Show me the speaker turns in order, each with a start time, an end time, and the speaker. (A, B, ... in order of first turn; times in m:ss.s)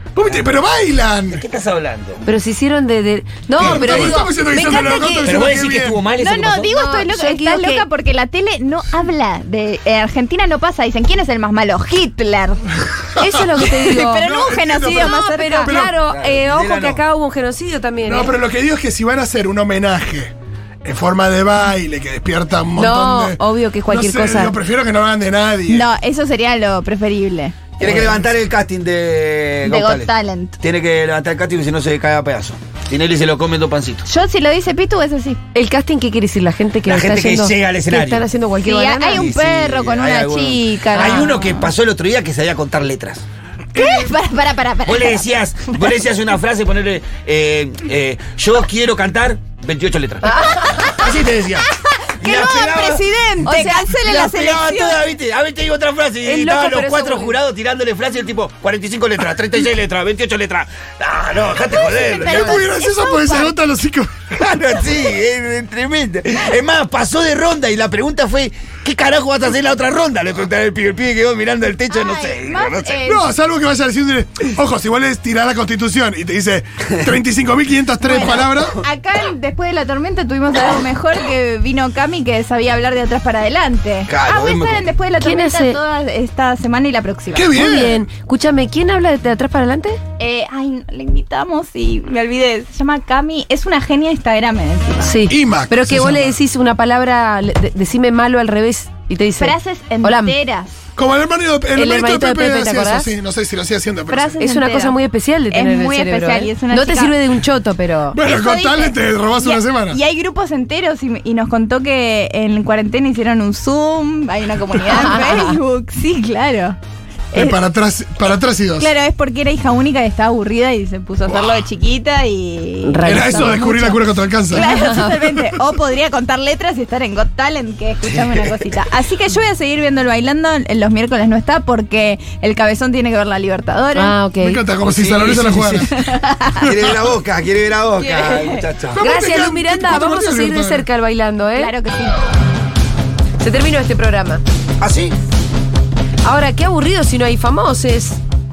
0:00.2-0:01.4 A
0:00.3-0:00.6 B
0:01.3-0:02.3 B
0:02.2-0:05.4 C
0:03.6-0:06.0 A
0:03.6-0:04.1 B
0:04.8-0:05.0 D
0:05.2-0:06.7 B
0:06.2-0:12.6 D
0:06.6-0:07.9 C
0:13.2-0:16.0 A
0:13.2-0:18.4 C
0:13.6-0:15.7 D
0:16.1-0:17.0 B
0:18.0-0:20.3 A
0:20.8-0:25.9 A
0:22.8-0:24.5 C
0:23.9-0:24.5 D
0:25.7-0:27.6 D
0:27.8-0:34.1 B
0:27.8-0:28.2 A
0:29.6-0:30.6 D
0:34.0-0:35.4 D
0:35.5-0:39.3 C
0:36.9-0:38.3 B
0:38.6-0:41.7 D
0:39.1-0:43.2 B
0:41.0-0:41.4 C
0:43.7-0:45.3 D
0:43.8-0:44.1 A
0:44.8-0:51.6 B
0:50.2-0:50.9 C
0:50.5-0:51.0 D
0:51.0-0:51.6 A
0:51.8-0:55.0 D
0:52.2-0:53.2 B
0:53.2-0:53.7 C
0:53.8-1:02.6 B
0:56.2-0:57.3 C
1:01.6-1:03.5 D
1:02.2-1:04.4 A
1:04.3-1:13.0 B
1:11.9-1:13.2 D
1:13.0-1:18.8 A
1:18.0-1:27.5 D
1:24.1-1:24.9 B
1:25.2-1:25.8 C
1:27.3-1:28.1 A
1:27.5-1:30.0 C
1:30.2-1:35.2 D
1:35.0-1:40.4 C
1:35.3-1:36.4 A
1:39.4-1:40.7 D
1:41.0-1:44.4 A
1:41.8-1:43.1 C
1:44.1-1:45.0 D
1:44.4-1:48.2 C
1:45.5-1:47.2 D
1:48.1-1:50.0 A
1:48.2-1:56.8 D
1:54.8-1:55.2 A
1:54.9-1:55.6 C
1:57.3-1:57.6 D
1:57.3-1:58.9 A
1:58.8-2:04.0 D
2:01.3-2:01.6 A
2:02.8-2:04.0 C
2:03.0-2:04.7 A
2:04.5-2:14.2 D
2:04.5-2:05.1 C
2:08.1-2:08.5 B
2:14.0-2:14.7 C
2:14.4-2:15.9 A
2:14.8-2:15.8 B
2:15.9-2:16.8 D
2:16.6-2:19.0 B
2:18.0-2:18.6 D
2:18.9-2:20.9 A
2:19.0-2:21.7 C
2:21.6-2:22.2 D
2:23.4-2:24.4 C
2:24.8-2:25.2 B
2:26.2-2:28.2 C